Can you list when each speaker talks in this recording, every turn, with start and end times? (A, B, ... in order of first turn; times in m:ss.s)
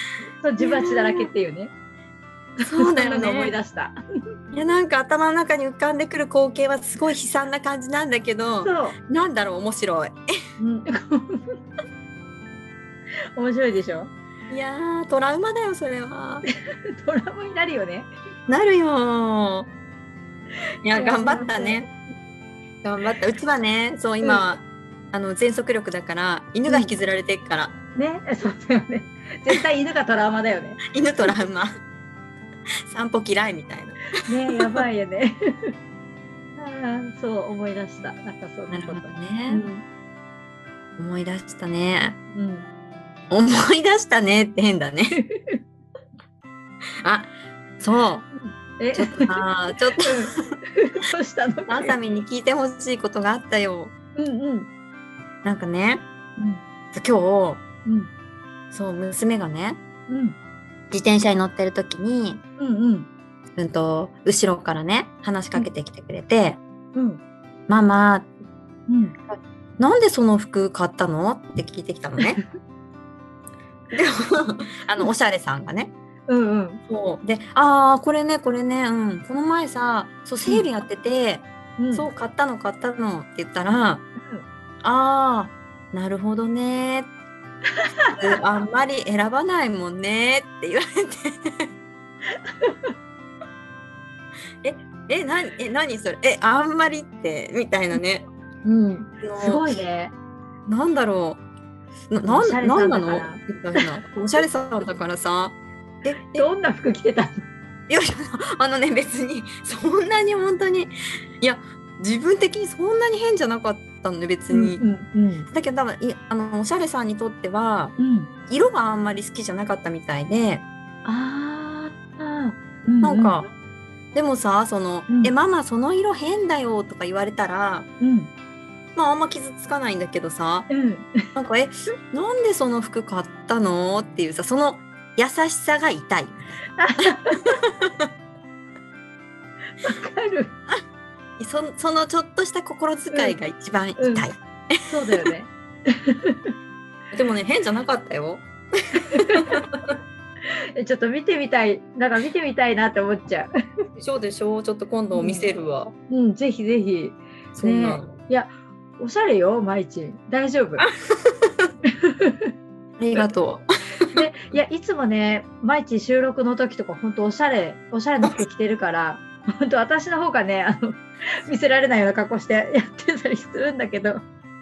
0:00.4-0:01.7 A
0:00.6-0:01.3 B
0:02.6-0:04.0 A
0:02.7-0:03.5 B
0:04.5-0:10.2 B
0:08.6-0:09.0 A
0:10.6-0:11.4 A
0:13.4-0:14.1 A
0:14.5-0:16.4 B
0:16.9-0:18.1 A
0:18.5-0:19.7 B
0:20.8-0:21.9 B
0:20.9-0:21.9 A
0:22.8-0:27.7 B
0:24.2-0:24.4 A
0:26.7-0:26.9 A
0:27.9-0:30.8 A
0:30.9-0:31.7 B
0:32.9-0:34.0 B
0:34.2-0:35.7 A
0:36.6-0:39.8 A
0:38.7-0:39.7 B
0:41.0-0:42.2 B
0:42.3-0:42.6 A
0:43.3-0:45.2 B
0:45.1-0:45.6 A
0:47.0-0:48.3 B
0:48.3-0:49.4 A
0:48.9-0:50.4 B
0:50.0-0:52.0 A
0:51.7-0:53.9 B
0:54.2-0:54.7 A
0:55.4-0:56.0 B
0:56.9-0:57.6 B
0:58.7-0:59.8 B
1:00.1-1:00.4 A
1:00.9-1:02.4 B
1:02.6-1:03.1 A
1:03.6-1:06.6 B
1:06.9-1:07.2 A
1:07.7-1:08.3 B
1:08.9-1:09.2 A
1:09.3-1:12.4 B
1:13.9-1:15.9 B
1:16.3-1:16.8 A
1:16.9-1:24.0 B
1:21.8-1:22.1 A
1:24.2-1:24.4 A
1:24.8-1:27.1 B
1:27.8-1:28.3 A
1:28.2-1:31.7 B
1:32.5-1:32.9 A
1:34.6-1:38.2 B
1:38.6-1:40.1 A
1:39.2-1:39.7 B
1:40.7-1:41.4 B
1:42.1-1:46.5 B
1:42.2-1:43.9 A
1:46.3-1:47.4 A
1:47.9-1:54.8 B
1:54.5-1:55.5 A
1:55.5-1:58.0 B
1:58.0-1:58.3 A
1:58.5-2:00.6 B
2:01.0-2:03.4 A
2:03.0-2:03.4 B
2:04.1-2:07.9 B
2:05.1-2:05.3 A
2:08.0-2:08.3 A
2:09.0-2:10.7 B
2:10.7-2:11.2 A
2:11.3-2:16.5 B
2:16.8-2:17.6 A
2:17.7-2:18.1 B
2:19.8-2:20.5 A
2:21.4-2:25.2 B
2:23.1-2:23.4 A
2:24.0-2:24.3 A
2:24.8-2:26.5 A
2:27.1-2:28.4 B
2:29.1-2:29.6 A
2:29.2-2:29.9 B
2:30.8-2:33.5 A
2:34.0-2:35.9 B
2:35.1-2:35.5 A
2:36.1-2:40.8 A
2:37.5-2:38.2 B
2:40.8-2:41.7 B
2:42.0-2:42.5 A
2:43.0-2:44.1 B
2:44.1-2:54.2 A